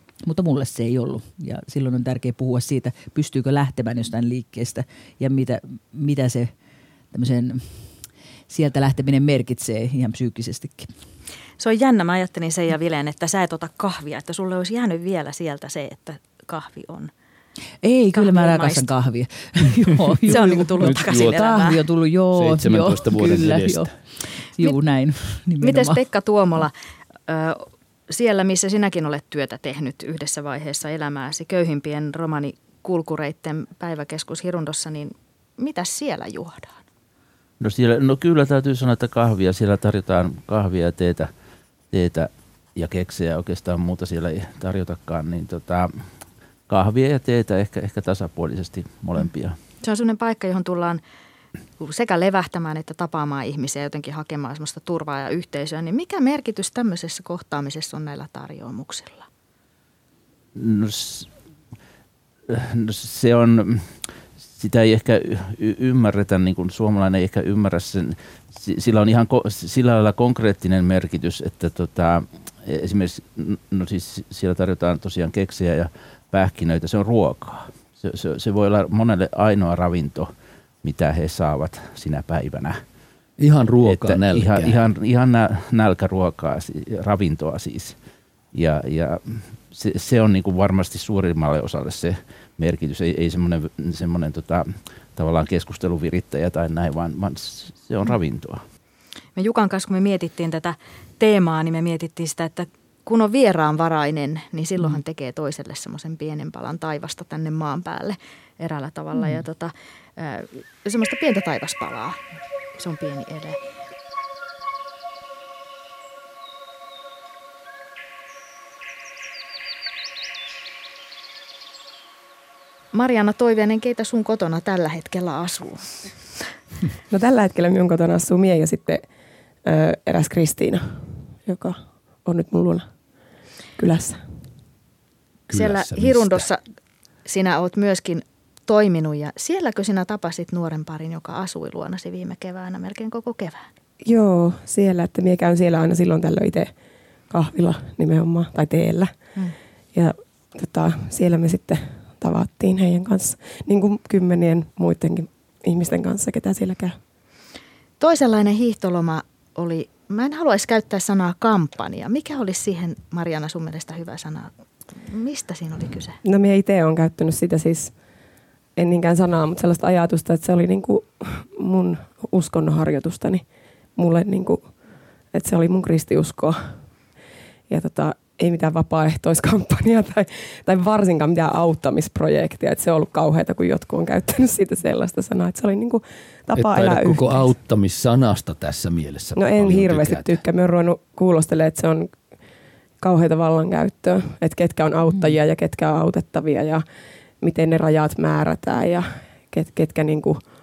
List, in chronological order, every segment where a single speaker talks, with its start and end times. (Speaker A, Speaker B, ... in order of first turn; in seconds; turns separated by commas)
Speaker A: 0.2-6.5, Speaker A: 7.1-10.9, Speaker B: 11.6-17.1, Speaker A: 17.8-23.9, Speaker B: 18.1-18.9, Speaker B: 20.2-21.8, Speaker C: 20.8-21.4, Speaker C: 22.3-23.9, Speaker A: 24.5-26.0, Speaker B: 25.6-26.7, Speaker B: 27.3-36.8, Speaker D: 37.6-41.3, Speaker D: 41.9-45.9, Speaker D: 46.7-49.6, Speaker B: 49.8-51.0, Speaker B: 51.8-59.2, Speaker D: 60.5-61.3, Speaker D: 62.5-80.3, Speaker D: 80.8-82.8, Speaker C: 83.4-84.8, Speaker D: 83.8-88.0, Speaker D: 88.5-98.6, Speaker B: 99.3-112.2, Speaker A: 109.1-109.4, Speaker B: 112.7-113.6, Speaker B: 122.9-126.1, Speaker E: 127.1-129.0, Speaker E: 129.6-132.9, Speaker E: 133.8-134.2, Speaker C: 135.5-136.4, Speaker B: 135.5-136.6, Speaker B: 137.2-143.7, Speaker E: 144.0-146.7, Speaker E: 147.3-149.1, Speaker E: 149.9-157.0, Speaker B: 158.0-166.2, Speaker E: 166.2-167.9, Speaker E: 168.8-173.4, Speaker E: 174.0-174.7, Speaker E: 175.3-176.8, Speaker E: 177.7-187.5, Speaker C: 186.6-190.3, Speaker E: 189.3-192.1, Speaker E: 193.0-196.8, Speaker E: 197.4-200.4